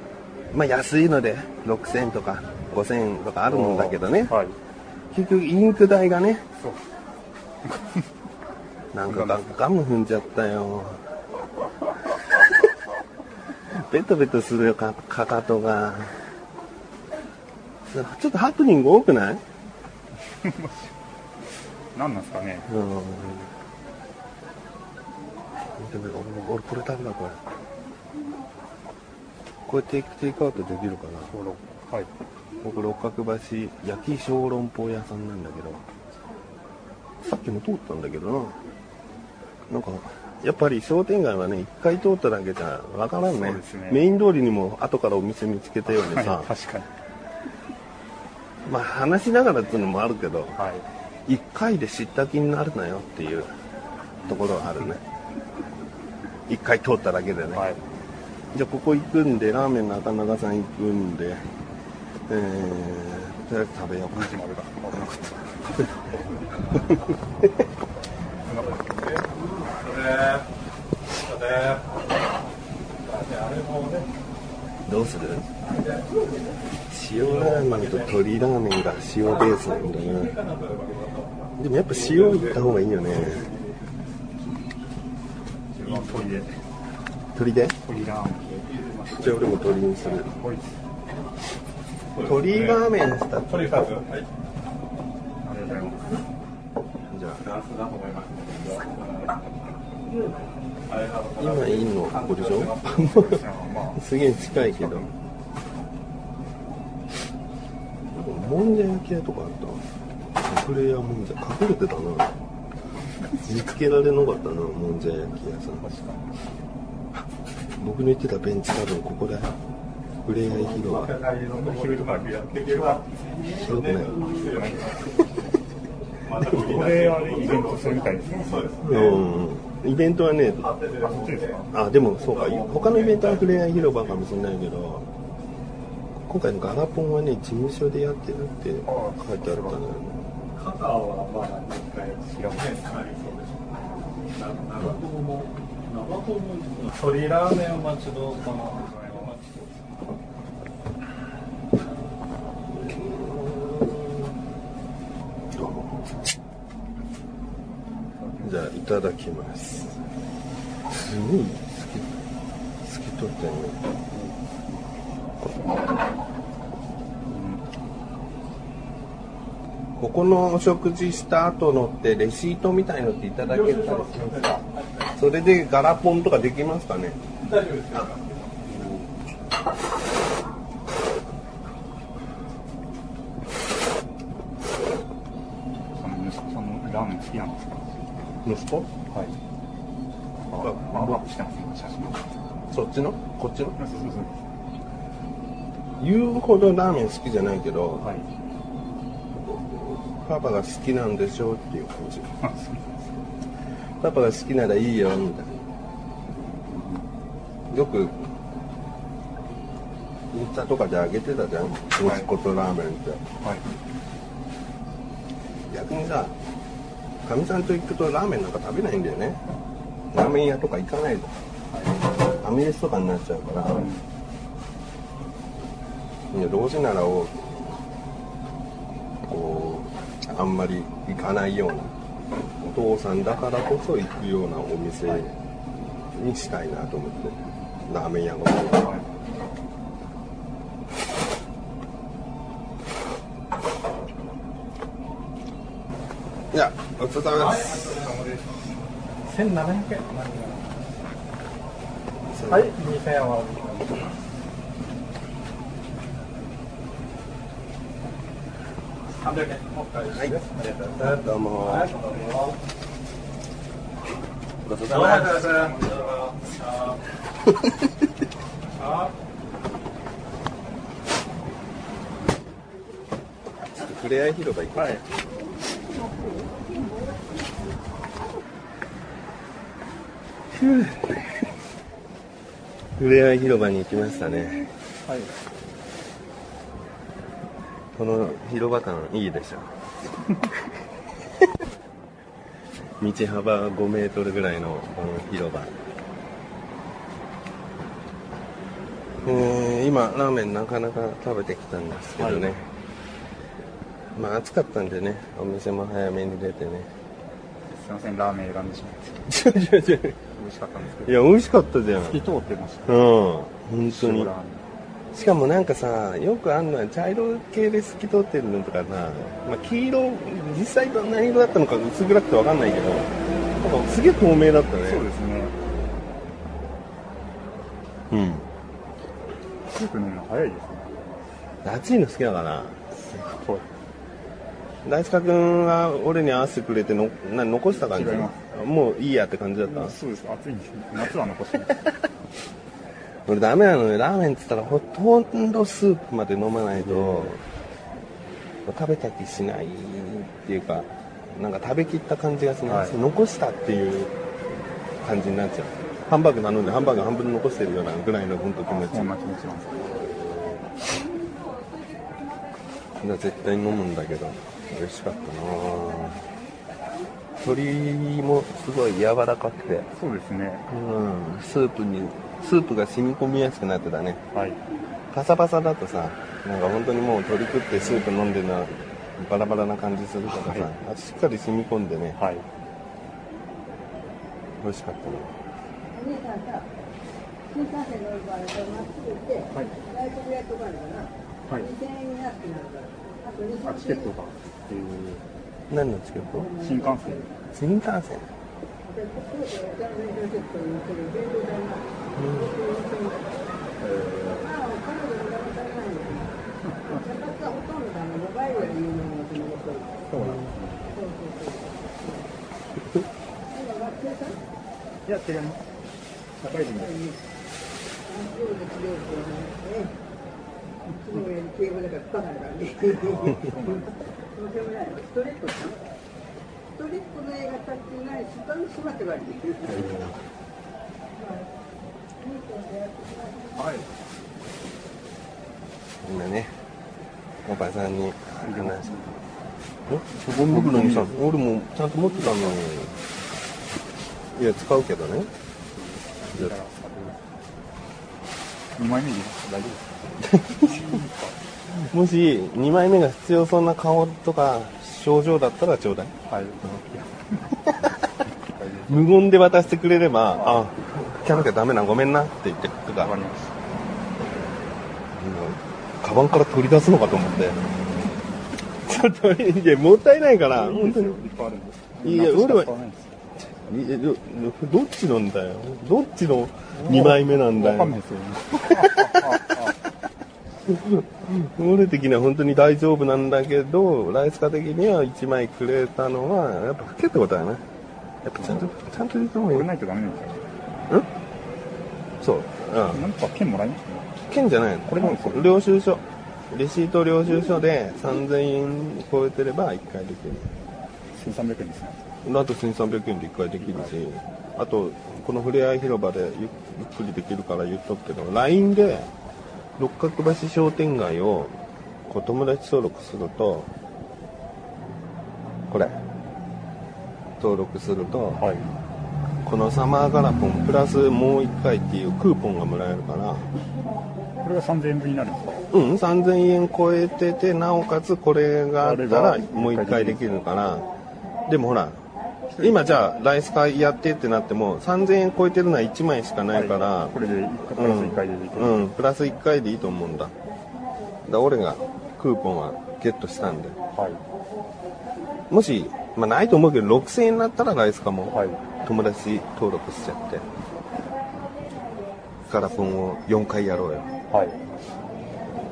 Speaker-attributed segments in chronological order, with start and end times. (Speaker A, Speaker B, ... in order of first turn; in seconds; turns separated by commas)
Speaker A: 0.5-4.3, Speaker B: 3.5-4.6, Speaker A: 5.1-6.4, Speaker A: 8.9-11.0, Speaker B: 9.1-9.5, Speaker A: 13.7-16.1, Speaker A: 17.9-19.4, Speaker B: 20.4-20.9, Speaker B: 21.9-22.7, Speaker A: 22.7-23.5, Speaker A: 25.8-27.4, Speaker A: 29.7-31.3, Speaker B: 31.3-32.1, Speaker A: 32.6-35.8, Speaker A: 37.2-38.6, Speaker A: 39.7-46.5, Speaker B: 43.2-44.0, Speaker B: 45.9-46.9, Speaker A: 48.6-50.6, Speaker B: 50.6-50.8, Speaker A: 51.3-53.5, Speaker B: 54.2-54.7, Speaker A: 54.2-55.0, Speaker A: 56.5-57.6, Speaker B: 57.5-57.8, Speaker A: 58.5-61.4, Speaker A: 62.3-64.4, Speaker B: 64.1-65.6, Speaker B: 68.4-69.2, Speaker C: 69.8-70.4, Speaker C: 71.3-71.8, Speaker C: 73.1-74.1, Speaker A: 74.8-75.5, Speaker A: 76.9-80.4, Speaker C: 77.4-77.9, Speaker C: 80.2-81.3, Speaker A: 81.6-83.5, Speaker B: 85.7-86.6, Speaker A: 87.3-87.8, Speaker B: 87.8-88.6, Speaker A: 89.1-90.3, Speaker B: 90.2-90.8, Speaker A: 92.2-94.0, Speaker C: 93.8-94.2, Speaker B: 95.4-96.1, Speaker A: 97.1-97.5, Speaker C: 97.5-99.3, Speaker C: 100.9-101.5, Speaker A: 101.3-105.1, Speaker C: 102.3-102.8, Speaker B: 103.1-105.1, Speaker A: 108.1-109.8, Speaker A: 110.4-112.3, Speaker A: 113.4-115.8, Speaker B: 115.8-116.3, Speaker A: 117.8-119.5, Speaker A: 120.2-121.2, Speaker C: 121.0-121.6, Speaker B: 121.4-123.0, Speaker C: 122.2-122.9, Speaker A: 123.4-124.2, Speaker C: 123.7-124.5, Speaker B: 124.2-125.1, Speaker B: 126.3-128.8, Speaker C: 126.3-127.2, Speaker A: 128.8-130.8, Speaker B: 131.0-131.7, Speaker A: 131.7-135.1, Speaker A: 136.3-140.2, Speaker B: 138.9-139.8, Speaker C: 140.6-142.2, Speaker B: 142.2-142.9, Speaker C: 142.8-143.4, Speaker C: 144.3-148.8, Speaker B: 148.7-149.3, Speaker A: 152.7-154.3, Speaker A: 155.5-156.2, Speaker B: 158.2-158.6, Speaker A: 158.4-160.0, Speaker A: 160.9-162.2, Speaker A: 162.8-163.8, Speaker B: 164.1-164.4, Speaker B: 167.3-167.6, Speaker A: 170.0-174.6, Speaker A: 175.1-177.2, Speaker C: 177.6-178.1, Speaker B: 185.9-187.8, Speaker A: 188.4-188.9, Speaker B: 190.5-192.2, Speaker A: 190.6-191.2, Speaker A: 192.7-193.8, Speaker B: 193.8-194.4, Speaker A: 196.0-198.1, Speaker B: 198.0-198.3, Speaker A: 199.4-202.3, Speaker B: 202.4-203.1, Speaker A: 204.0-205.6, Speaker B: 206.7-207.1, Speaker A: 207.7-208.2, Speaker A: 210.3-213.2, Speaker B: 212.0-212.3, Speaker A: 215.7-216.3, Speaker A: 217.2-219.4, Speaker A: 220.1-221.3, Speaker B: 221.7-222.1, Speaker A: 222.3-223.9, Speaker B: 223.7-224.0, Speaker A: 226.3-227.5, Speaker A: 229.2-231.9, Speaker A: 232.6-235.3, Speaker A: 236.1-238.9, Speaker B: 238.8-239.1, Speaker A: 246.5-248.1, Speaker C: 247.6-248.2, Speaker C: 249.2-250.6, Speaker A: 252.3-252.7, Speaker C: 252.5-254.1, Speaker C: 259.2-260.9, Speaker A: 260.1-261.9, Speaker C: 261.6-262.6, Speaker A: 264.6-265.7, Speaker C: 264.9-266.9, Speaker C: 268.8-269.1, Speaker A: 273.8-275.0, Speaker B: 274.8-275.0, Speaker A: 280.5-281.3, Speaker A: 283.0-284.7, Speaker B: 285.0-285.3, Speaker A: 287.9-289.7, Speaker A: 293.0-295.7, Speaker A: 299.2-302.6, Speaker B: 302.2-302.6, Speaker A: 304.1-306.9, Speaker B: 307.7-309.3, Speaker A: 309.3-310.2, Speaker B: 310.4-311.2, Speaker A: 311.0-312.2, Speaker B: 311.9-313.0, Speaker A: 312.9-314.3, Speaker B: 313.9-314.6, Speaker A: 315.1-325.1, Speaker B: 324.8-325.5, Speaker A: 328.1-328.5, Speaker B: 329.7-331.2, Speaker A: 331.6-332.8, Speaker B: 333.0-333.7, Speaker A: 334.8-339.9, Speaker B: 337.8-338.4, Speaker B: 339.6-341.8, Speaker A: 343.2-347.4, Speaker B: 346.8-347.3, Speaker A: 348.6-354.1, Speaker B: 352.7-353.0, Speaker A: 355.0-359.1, Speaker B: 358.6-360.0, Speaker A: 363.0-366.2, Speaker A: 367.4-369.9, Speaker B: 369.9-370.6, Speaker A: 370.7-374.2, Speaker B: 374.3-374.6, Speaker A: 375.1-382.2, Speaker B: 380.3-380.7, Speaker B: 382.2-382.4, Speaker A: 384.6-385.3, Speaker D: 386.0-386.6, Speaker D: 387.5-389.4, Speaker B: 389.5-389.8, Speaker D: 390.0-391.1, Speaker B: 391.5-391.8, Speaker D: 391.8-392.9, Speaker B: 393.6-395.2, Speaker A: 395.7-396.6, Speaker B: 396.5-397.4, Speaker A: 397.5-398.3, Speaker D: 398.9-401.8, Speaker A: 402.1-402.6, Speaker D: 402.6-403.1, Speaker B: 403.8-404.7, Speaker D: 404.6-406.2, Speaker B: 406.6-407.1, Speaker D: 407.2-409.8, Speaker B: 408.5-409.0, Speaker B: 410.1-411.0, Speaker D: 411.1-411.9, Speaker D: 413.6-414.3, Speaker B: 415.1-415.6, Speaker B: 416.4-417.1, Speaker D: 418.1-419.9, Speaker B: 420.9-421.4, Speaker D: 421.3-422.7, Speaker B: 422.6-424.1, Speaker D: 424.4-425.8, Speaker D: 426.8-429.6, Speaker B: 429.6-430.1, Speaker A: 429.8-430.1, Speaker B: 433.6-433.9, Speaker A: 436.0-436.6, Speaker A: 437.4-438.9, Speaker B: 438.4-439.1, Speaker A: 439.9-442.9, Speaker B: 440.2-441.2, Speaker B: 442.1-442.6, Speaker A: 444.3-445.3, Speaker B: 445.7-447.3, Speaker B: 448.8-451.4, Speaker A: 450.3-451.0, Speaker A: 451.7-456.1, Speaker B: 456.3-457.6, Speaker B: 458.4-459.0, Speaker A: 458.9-463.1, Speaker B: 460.4-460.7, Speaker B: 463.0-463.6, Speaker A: 465.1-467.6, Speaker A: 468.8-471.2, Speaker B: 470.5-473.1, Speaker A: 472.0-472.7, Speaker A: 473.6-478.0, Speaker B: 476.7-479.8, Speaker A: 478.6-479.3, Speaker A: 480.7-487.6, Speaker A: 488.2-489.7, Speaker B: 489.5-490.4, Speaker A: 492.2-493.1, Speaker B: 492.9-494.1, Speaker A: 494.3-500.5, Speaker B: 494.9-495.6, Speaker B: 501.1-502.1, Speaker A: 502.2-509.1, Speaker B: 503.6-503.9, Speaker A: 509.8-511.6, Speaker A: 512.1-513.7, Speaker A: 515.7-516.0, Speaker A: 517.4-518.4, Speaker B: 518.4-518.7, Speaker A: 519.4-523.5, Speaker B: 524.4-525.6, Speaker A: 525.7-530.9, Speaker B: 528.8-530.2, Speaker A: 531.5-532.0, Speaker B: 532.5-533.0, Speaker A: 532.6-537.1, Speaker B: 536.5-538.9, Speaker A: 537.7-540.3, Speaker A: 541.3-543.8, Speaker B: 543.9-544.2, Speaker A: 545.5-550.5, Speaker B: 548.3-548.6, Speaker A: 552.5-554.1, Speaker B: 554.3-554.6